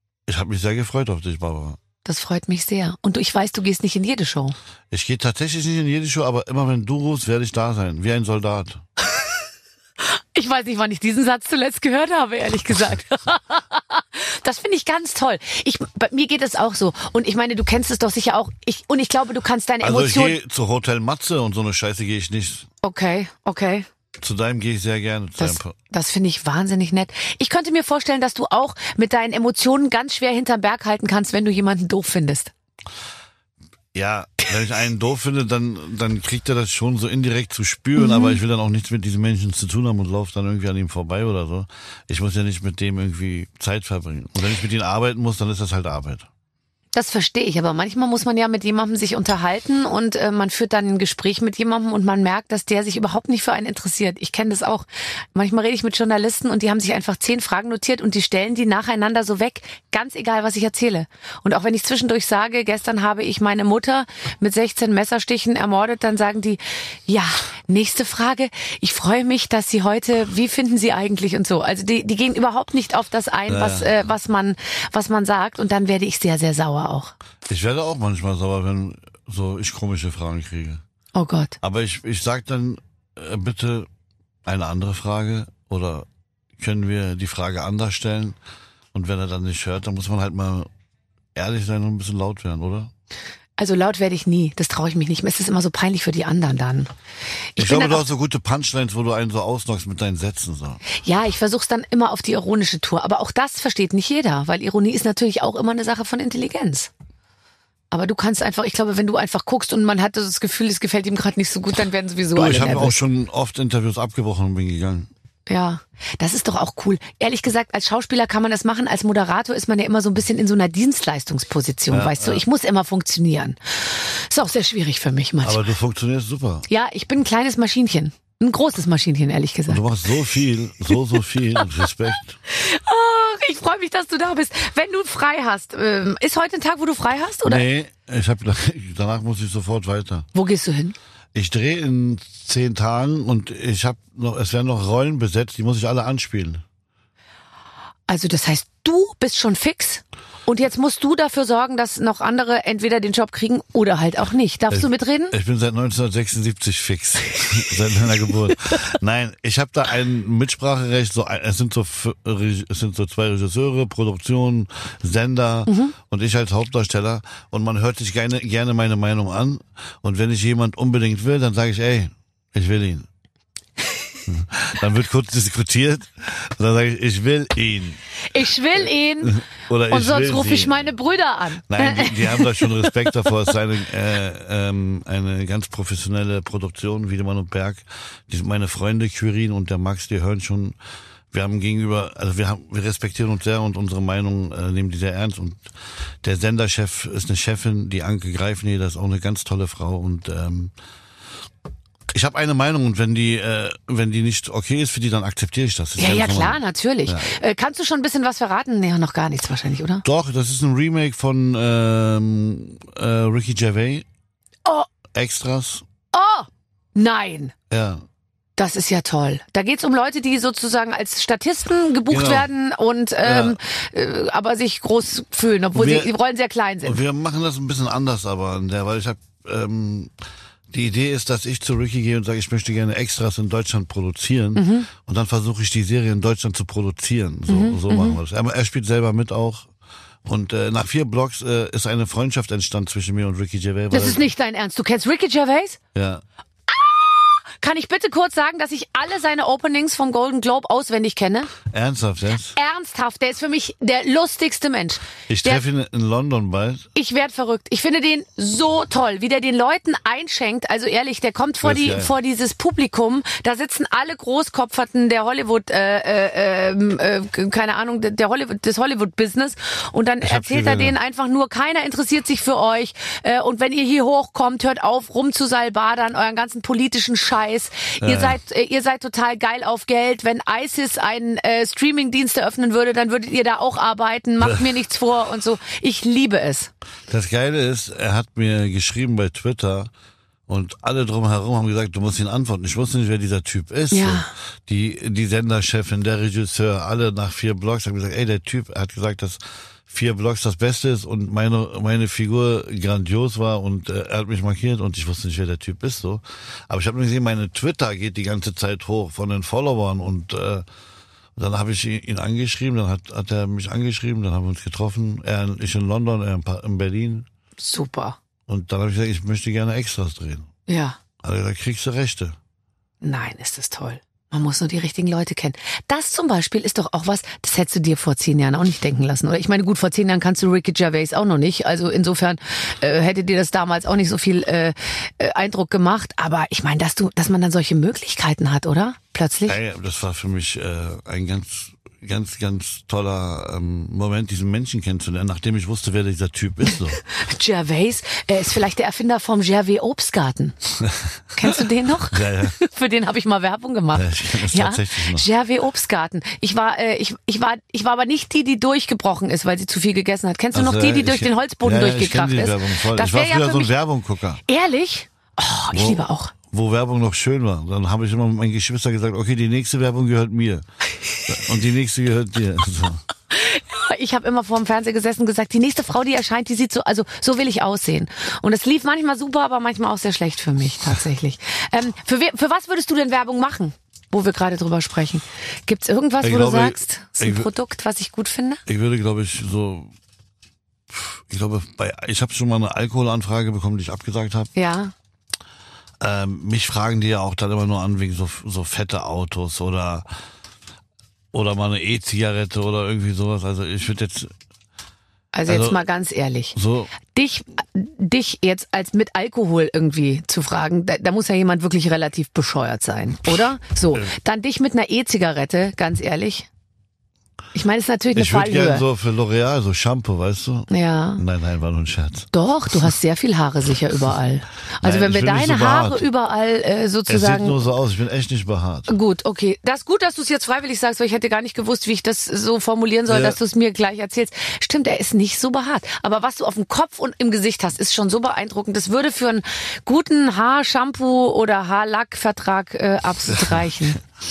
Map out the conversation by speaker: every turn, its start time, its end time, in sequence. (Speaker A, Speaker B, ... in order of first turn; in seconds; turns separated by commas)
Speaker A: 0.3-1.8, Speaker B: 2.0-4.6, Speaker A: 4.9-8.8, Speaker B: 10.0-20.4, Speaker A: 19.8-22.7, Speaker B: 22.8-23.9, Speaker A: 24.2-25.8, Speaker B: 25.4-32.5, Speaker A: 33.9-46.3, Speaker B: 38.0-38.4, Speaker B: 46.9-77.1, Speaker A: 73.5-73.9, Speaker A: 77.5-80.8, Speaker B: 81.2-81.6, Speaker A: 81.6-83.9, Speaker A: 84.5-86.1, Speaker A: 86.6-88.4, Speaker A: 88.9-90.7, Speaker A: 91.3-92.9, Speaker B: 93.6-96.9, Speaker B: 97.5-98.1, Speaker A: 97.6-100.8, Speaker B: 100.9-106.9, Speaker B: 107.9-113.0, Speaker A: 112.3-115.1, Speaker B: 115.5-125.7, Speaker A: 121.9-122.4, Speaker A: 125.4-126.7, Speaker B: 126.7-129.8, Speaker A: 129.7-132.4, Speaker B: 132.5-137.7, Speaker A: 137.4-140.3, Speaker B: 140.3-140.9, Speaker A: 141.3-146.6, Speaker B: 148.1-155.3, Speaker A: 154.7-173.1, Speaker B: 165.7-165.9, Speaker A: 174.3-178.0, Speaker B: 178.2-183.3, Speaker A: 179.2-180.9, Speaker A: 181.7-190.8, Speaker A: 191.3-200.7, Speaker A: 202.1-207.4, Speaker B: 206.0-210.1, Speaker A: 210.0-214.1, Speaker A: 215.1-215.8, Speaker B: 216.1-217.5, Speaker A: 217.7-218.1, Speaker B: 218.6-227.0, Speaker A: 222.1-222.5, Speaker A: 223.2-223.6, Speaker A: 225.7-226.1, Speaker A: 226.8-230.1, Speaker A: 230.7-239.7, Speaker B: 234.6-234.9, Speaker B: 237.5-238.2, Speaker A: 240.2-244.3, Speaker B: 243.9-245.8, Speaker A: 245.9-246.2, Speaker B: 246.7-251.5, Speaker A: 251.7-252.6, Speaker B: 252.5-255.6, Speaker A: 255.3-256.9, Speaker B: 256.9-286.7, Speaker A: 261.6-262.1, Speaker A: 270.2-270.9, Speaker A: 278.0-278.4, Speaker A: 284.4-284.7, Speaker A: 287.1-289.9, Speaker A: 290.5-310.7, Speaker B: 293.9-294.3, Speaker A: 311.4-317.3, Speaker B: 317.6-318.2, Speaker A: 318.5-320.5, Speaker B: 320.7-321.0, Speaker A: 321.2-322.4, Speaker B: 323.0-339.6, Speaker A: 339.5-347.0, Speaker B: 347.0-350.6, Speaker A: 350.8-351.5, Speaker B: 351.4-363.7, Speaker A: 352.1-352.6, Speaker A: 353.9-355.3, Speaker A: 360.5-364.4, Speaker B: 364.5-366.3, Speaker A: 365.7-370.6, Speaker A: 371.3-373.0, Speaker B: 373.3-388.6, Speaker A: 386.2-387.5, Speaker A: 388.7-389.9, Speaker A: 390.9-394.5, Speaker B: 394.6-394.9, Speaker A: 396.0-400.1, Speaker A: 401.3-404.3, Speaker B: 405.3-406.6, Speaker A: 405.5-405.8, Speaker A: 406.5-406.9, Speaker B: 407.1-416.5, Speaker B: 417.5-418.9, Speaker A: 418.2-422.3, Speaker B: 420.7-421.2, Speaker B: 422.3-427.6, Speaker A: 424.8-426.1, Speaker A: 427.1-428.9, Speaker B: 428.9-444.0, Speaker A: 433.1-433.4, Speaker A: 443.3-443.9